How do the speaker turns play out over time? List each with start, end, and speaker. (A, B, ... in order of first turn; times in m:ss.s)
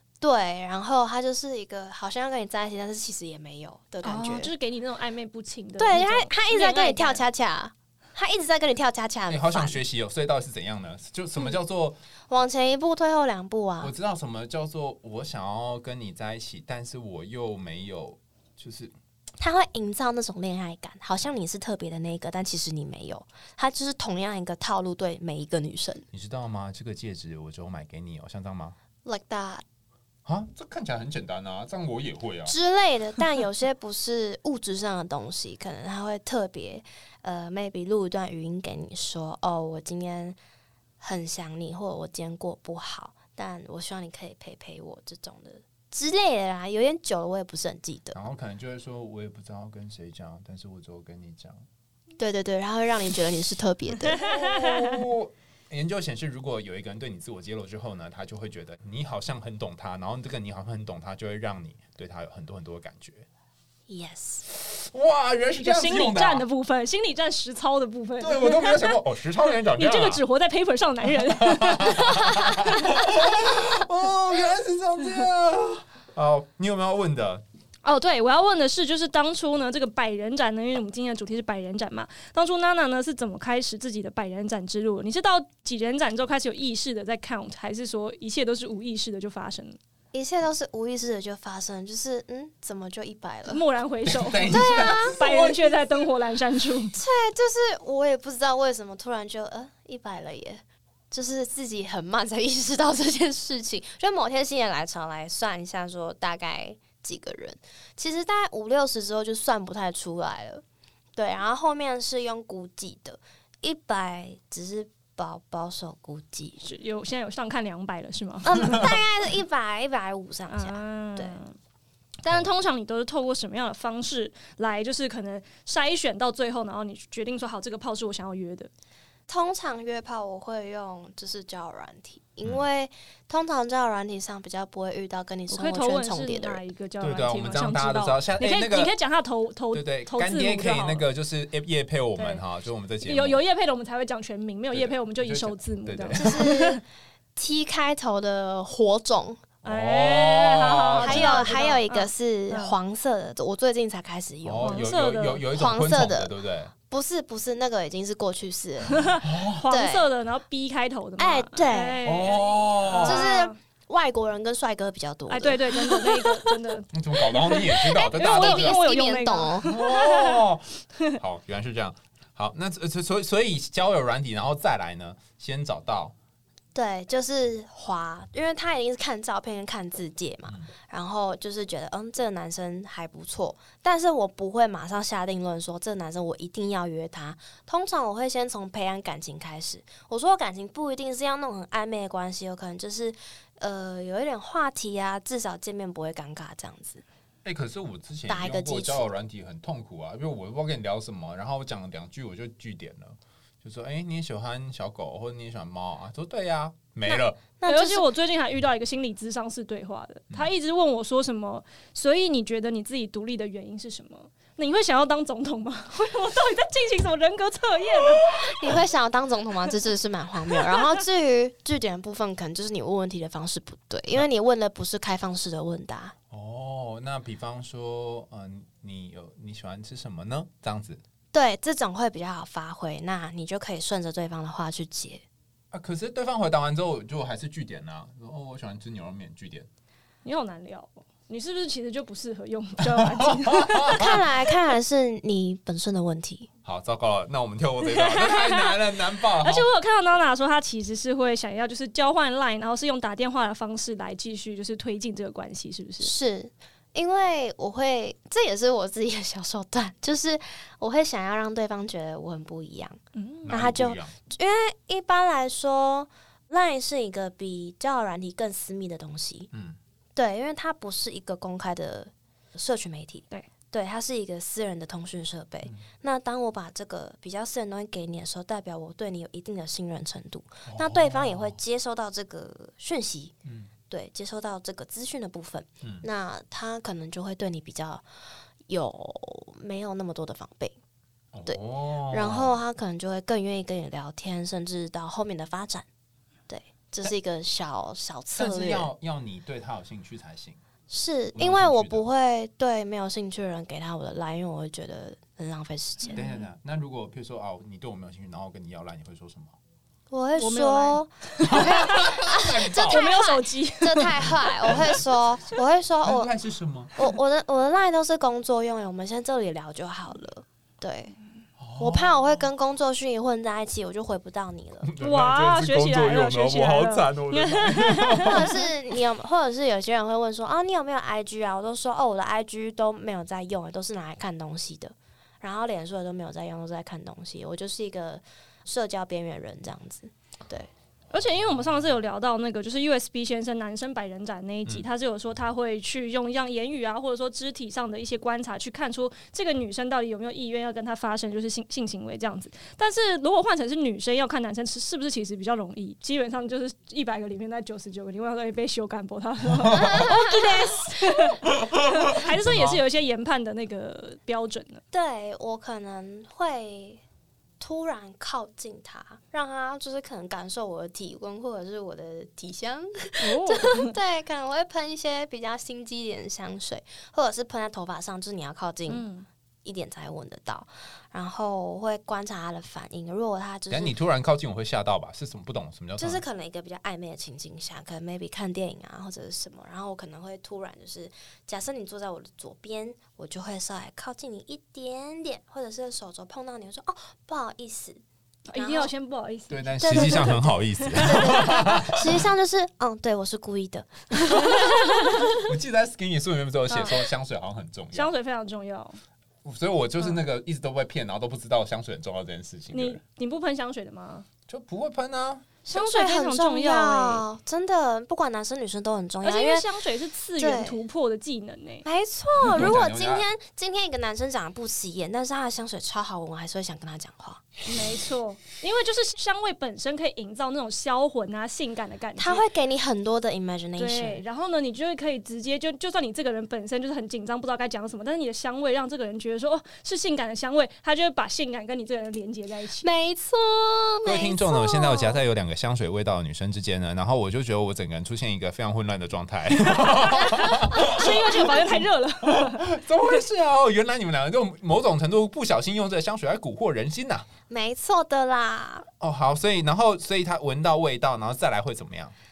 0:00.2-0:04.5 A
0:04.0-0:07.2 B
0:05.8-0:09.8 A
0:09.3-0:12.0 C
0:12.3-0:13.9 A
0:13.8-0:18.9 C
0:19.4-0:26.0 A
0:26.1-0:28.8 C
0:29.0-0:29.6 A
0:30.2-0:32.5 C
0:32.5-0:40.4 A
0:41.0-0:48.2 A
0:48.1-0:51.6 C
0:52.2-0:54.2 A
0:54.1-1:03.2 C
0:54.1-0:55.0 B
1:03.9-1:04.4 A
1:04.5-1:06.4 C
1:05.6-1:09.0 B
1:08.2-1:10.2 C
1:09.5-1:13.0 B
1:11.0-1:17.4 C
1:17.8-1:29.8 B
1:30.1-1:33.6 A
1:33.5-1:36.9 B
1:34.0-1:35.2 C
1:34.5-1:36.0 A
1:36.9-1:50.6 A
1:51.2-1:56.6 A
1:56.6-1:58.9 B
1:58.4-2:01.4 A
2:00.5-2:01.5 B
2:02.2-2:08.7 B
2:09.3-2:16.6 A
2:15.5-2:21.1 B
2:17.0-2:18.9 C
2:19.7-2:23.4 C
2:22.2-2:22.4 B
2:23.0-2:26.8 B
2:24.7-2:26.4 C
2:26.1-2:26.8 A
2:27.4-2:29.4 A
2:29.6-2:31.6 C
2:29.6-2:32.7 B
2:31.0-2:34.9 A
2:34.4-2:36.7 C
2:34.6-2:35.4 B
2:35.5-2:36.3 A
2:36.9-2:40.1 A
2:38.9-2:43.6 B
2:39.2-2:39.6 C
2:41.2-2:42.0 A
2:42.0-2:43.3 C
2:43.0-2:46.5 A
2:45.3-2:51.1 B
2:46.9-2:48.8 C
2:47.4-2:49.7 A
2:49.6-2:56.1 C
2:56.7-3:17.0 A
3:17.4-3:27.4 C
3:18.3-3:19.1 A
3:27.1-3:28.1 A
3:27.6-3:38.4 B
3:38.3-3:46.1 A
3:46.3-3:51.0 C
3:51.3-3:55.2 A
3:55.7-3:59.7 C
4:00.2-4:04.2 B
4:02.8-4:04.2 C
4:03.9-4:06.5 A
4:06.6-4:09.7 C
4:07.8-4:16.1 B
4:16.0-4:29.5 A
4:23.1-4:23.5 B
4:23.4-4:24.1 C
4:29.5-4:29.8 C
4:30.2-4:43.3 A
4:40.6-4:41.6 C
4:43.4-4:43.7 C
4:43.9-4:48.0 A
4:48.7-4:50.8 A
4:51.3-4:52.6 C
4:52.1-4:55.8 A
4:56.5-4:58.9 A
4:58.4-5:00.6 C
5:00.9-5:06.2 A
5:01.3-5:02.0 C
5:06.1-5:06.4 B
5:06.1-5:09.5 C
5:10.1-5:16.3 A
5:10.4-5:12.0 B
5:11.4-5:13.1 C
5:12.8-5:14.5 B
5:14.7-5:15.0 C
5:16.0-5:16.9 C
5:16.9-5:21.1 A
5:21.6-5:22.4 C
5:21.8-5:24.9 A
5:24.8-5:28.6 C
5:25.0-5:28.4 B
5:28.2-5:40.7 A
5:41.1-6:04.8 B
5:59.6-6:00.0 C
5:59.7-6:01.2 A
6:01.5-6:02.8 C
6:04.9-6:07.0 A
6:07.6-6:19.0 A
6:13.2-6:13.9 B
6:18.9-6:19.2 B
6:19.6-6:23.9 A
6:23.7-6:26.2 C
6:26.0-6:38.0 A
6:38.5-6:41.5 B
6:38.5-6:38.9 A
6:39.5-6:42.2 C
6:39.8-6:45.4 A
6:44.5-6:44.8 B
6:45.4-6:48.1 C
6:46.7-6:47.0 B
6:47.9-6:49.0 B
6:49.4-6:53.0 C
6:52.7-6:54.2 B
6:54.5-6:55.5 C
6:55.6-6:59.6 A
6:55.7-6:57.2 B
6:59.2-7:01.8 B
7:00.4-7:00.8 A
7:01.8-7:07.4 A
7:02.4-7:03.3 C
7:07.6-7:12.4 B
7:12.2-7:14.2 A
7:13.8-7:22.8 B
7:22.8-7:25.2 A
7:24.0-7:37.3 C
7:29.7-7:32.8 B
7:37.5-7:38.9 A
7:39.0-7:42.1 C